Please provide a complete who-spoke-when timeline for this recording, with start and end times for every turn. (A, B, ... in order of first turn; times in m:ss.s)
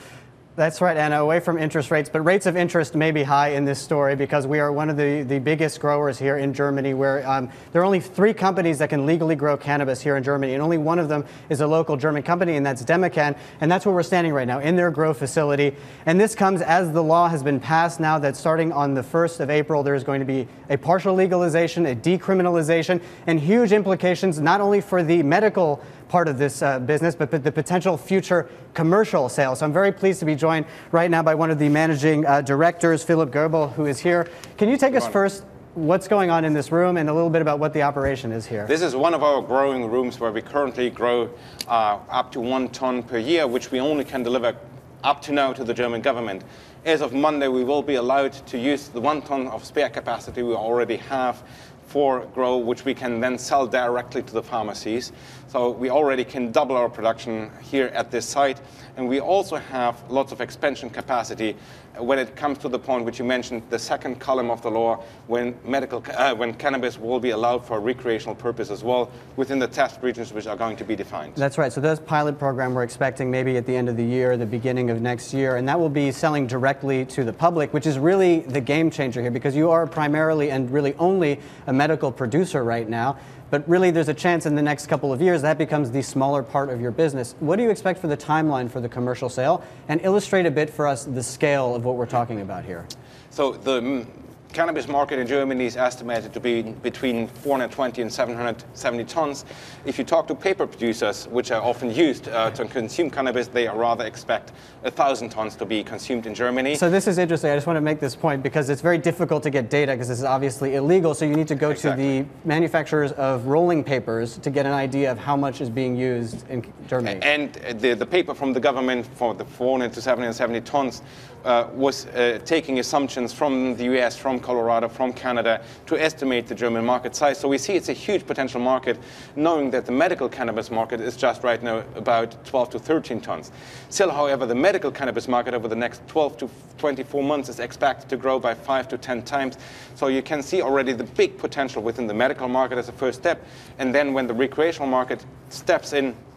0:00.6-0:38.7 A
0:34.9-0:35.2 B
0:38.7-1:11.4 B
1:11.4-1:32.9 A
1:33.3-1:46.8 B
1:46.7-1:57.2 A
1:51.7-1:52.1 B
1:57.0-2:26.2 B